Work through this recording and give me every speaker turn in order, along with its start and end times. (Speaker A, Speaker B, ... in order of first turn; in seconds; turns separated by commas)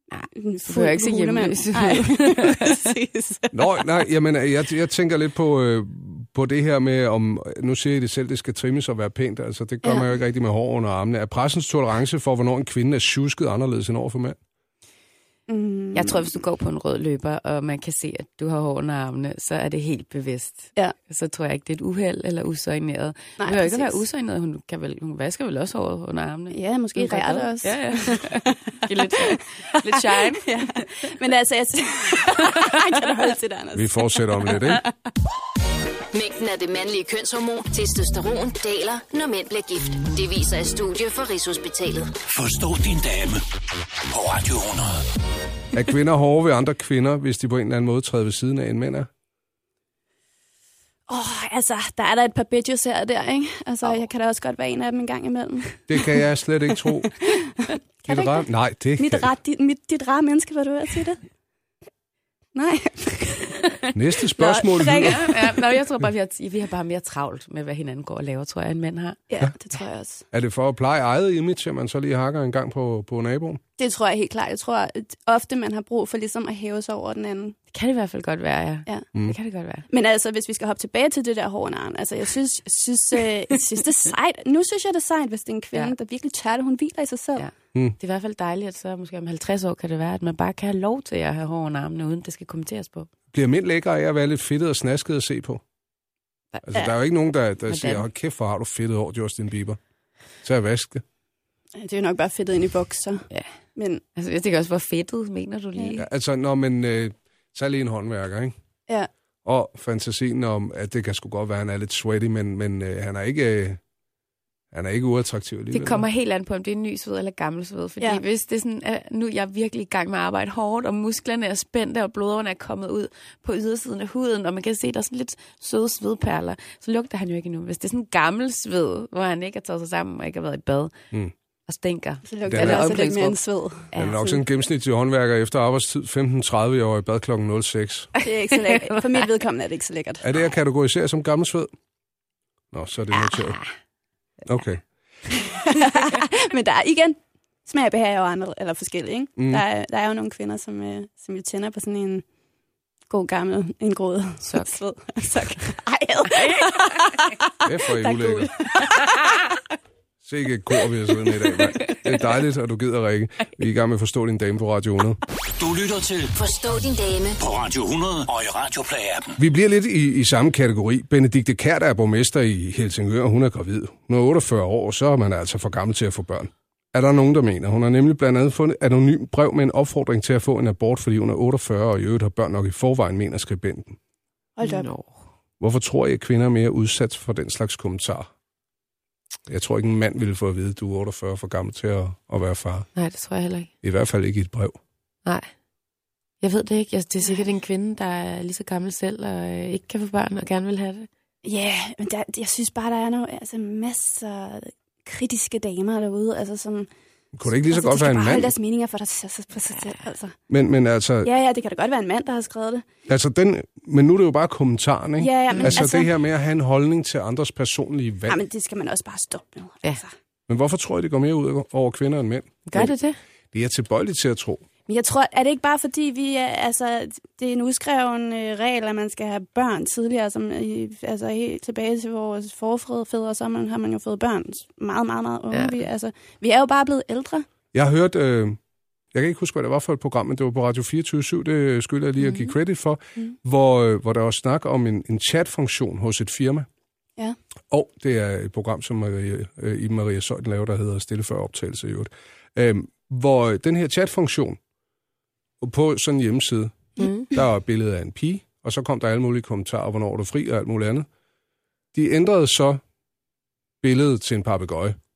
Speaker A: 0.1-2.8, Speaker B: 0.3-3.5, Speaker C: 3.5-14.3, Speaker B: 15.5-16.2, Speaker A: 15.9-30.7, Speaker B: 23.4-24.0, Speaker B: 26.5-34.9, Speaker C: 33.7-34.8, Speaker D: 36.1-42.1, Speaker E: 42.3-43.4, Speaker E: 44.1-45.0, Speaker C: 45.7-49.1, Speaker B: 51.1-56.1, Speaker C: 55.9-57.1, Speaker B: 57.1-58.4, Speaker C: 58.1-59.3, Speaker B: 59.0-61.2, Speaker B: 62.5-63.7, Speaker C: 63.9-65.3, Speaker B: 64.3-65.5, Speaker A: 65.0-69.2, Speaker B: 69.3-70.2, Speaker C: 70.3-73.6, Speaker B: 73.8-77.6, Speaker A: 77.7-79.8, Speaker B: 79.9-87.5, Speaker A: 87.3-93.1, Speaker C: 93.3-95.6, Speaker C: 96.6-99.8, Speaker A: 97.7-98.0, Speaker C: 100.4-101.0, Speaker B: 101.8-103.2, Speaker B: 103.8-104.0, Speaker A: 104.2-106.0, Speaker C: 106.0-108.5, Speaker C: 109.4-113.8, Speaker C: 114.7-116.0, Speaker A: 115.7-130.9, Speaker A: 131.7-133.4, Speaker B: 132.3-134.1, Speaker C: 132.5-133.0, Speaker A: 133.9-134.4, Speaker C: 133.9-138.1, Speaker B: 138.2-140.3, Speaker C: 140.2-141.7, Speaker C: 142.7-143.6, Speaker A: 143.1-143.7, Speaker C: 144.4-144.8, Speaker B: 145.3-152.2, Speaker C: 149.4-149.6, Speaker B: 153.1-159.4, Speaker A: 154.4-154.8, Speaker C: 157.6-158.5, Speaker C: 160.2-165.2, Speaker B: 161.7-161.9, Speaker E: 165.6-166.3, Speaker D: 166.3-167.4, Speaker E: 167.4-169.3, Speaker C: 169.4-184.0, Speaker B: 184.6-184.9, Speaker A: 184.6-185.2, Speaker C: 185.6-188.3, Speaker C: 189.5-192.9, Speaker A: 192.9-193.7, Speaker C: 193.8-194.8, Speaker A: 195.2-195.5, Speaker A: 196.4-201.1, Speaker B: 201.4-206.9, Speaker C: 207.3-208.5, Speaker B: 207.4-210.3, Speaker C: 210.5-211.3, Speaker B: 211.2-212.9, Speaker C: 213.1-218.4, Speaker B: 215.2-216.1, Speaker A: 215.5-215.8, Speaker B: 218.3-220.1, Speaker C: 220.5-222.9, Speaker A: 222.7-223.2, Speaker C: 223.5-224.6, Speaker B: 224.9-237.4, Speaker A: 235.5-235.8, Speaker C: 237.7-238.6, Speaker C: 239.1-246.7, Speaker C: 247.7-254.6, Speaker C: 255.6-261.1, Speaker A: 257.0-257.3, Speaker C: 261.9-262.8, Speaker C: 263.8-264.9